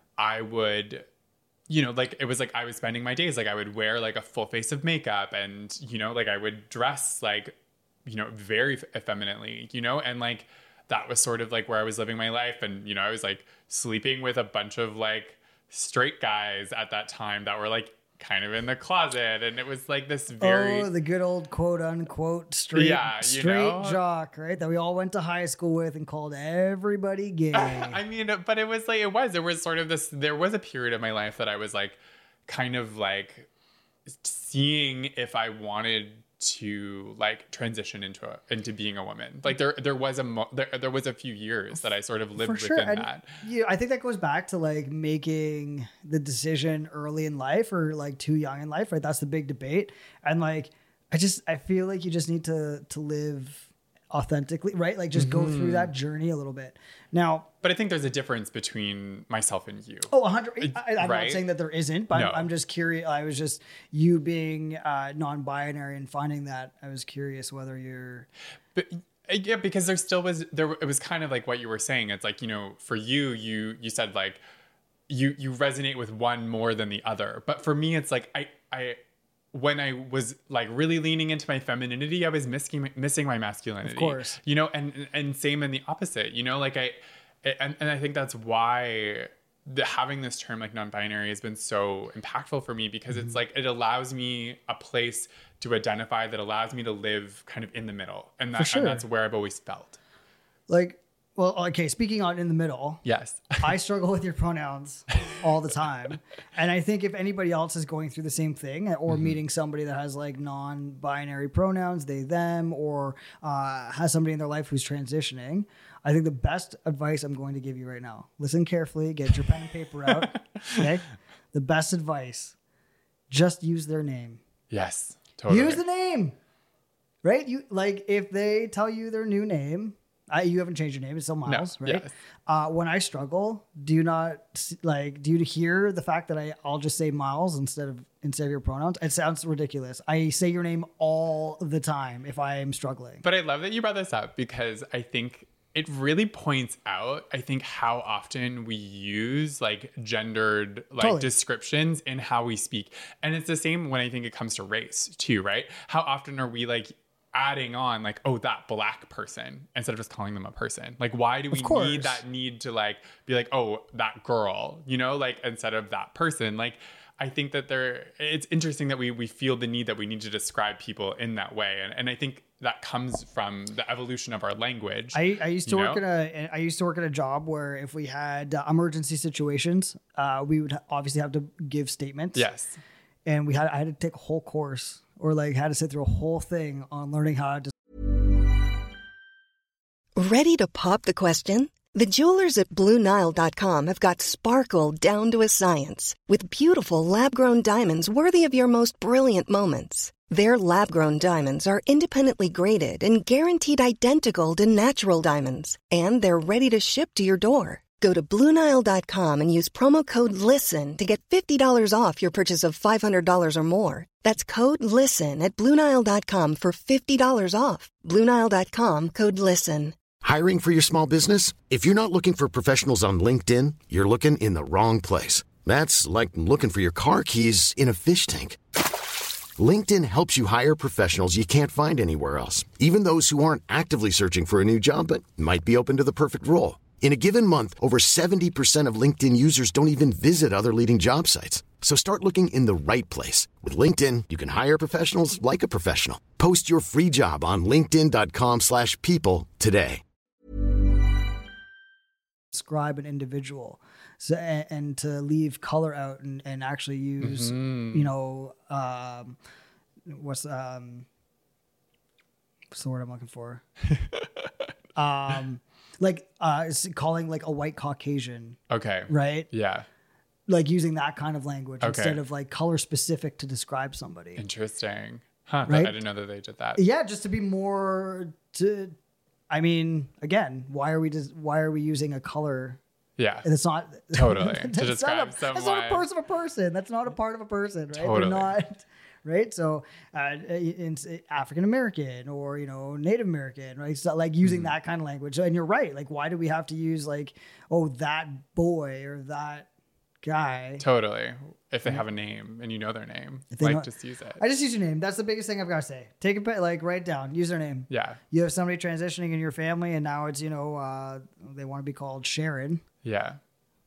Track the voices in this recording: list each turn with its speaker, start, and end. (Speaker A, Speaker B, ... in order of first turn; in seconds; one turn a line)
Speaker A: 0.2-1.1
Speaker A: 1.7-20.9
Speaker B: 20.4-28.0
Speaker A: 22.7-24.0
Speaker A: 27.5-33.5
Speaker A: 34.1-43.3
Speaker B: 42.4-57.5
Speaker A: 55.1-55.9
Speaker A: 57.6-61.4
Speaker B: 60.1-68.3
Speaker A: 62.1-62.5
Speaker A: 68.7-74.4
Speaker A: 75.1-79.0
Speaker A: 79.5-100.0
Speaker B: 83.8-84.4
Speaker B: 98.5-99.0
Speaker B: 100.7-103.0
Speaker A: 103.0-103.7
Speaker B: 103.6-122.5
Speaker A: 109.1-109.4
Speaker B: 123.3-124.4
Speaker A: 124.7-125.8
Speaker B: 125.5-126.4
Speaker B: 127.2-143.2
Speaker A: 131.4-132.1
Speaker A: 143.2-176.0
Speaker B: 151.0-151.3
Speaker B: 161.5-162.2
Speaker B: 175.1-182.5
Speaker A: 182.3-182.8
Speaker B: 183.3-187.7
Speaker C: 190.2-219.9
Speaker D: 220.2-228.6
Speaker D: 229.6-250.0
Speaker B: 252.5-259.4
Speaker A: 257.2-258.1
Speaker B: 260.1-261.1
Speaker B: 262.7-263.6
Speaker B: 265.0-269.5
Speaker A: 268.7-269.9
Speaker B: 270.5-274.4
Speaker A: 271.8-272.2
Speaker A: 274.4-276.8
Speaker B: 275.7-276.0
Speaker B: 276.8-279.0
Speaker B: 279.5-282.8
Speaker A: 283.2-283.5
Speaker B: 283.4-299.7
Speaker A: 284.1-286.1
Speaker A: 287.9-288.6
Speaker A: 294.4-294.7
Speaker B: 300.2-300.8
Speaker A: 300.8-304.4
Speaker B: 303.5-312.8
Speaker A: 307.9-308.2
Speaker A: 313.0-313.4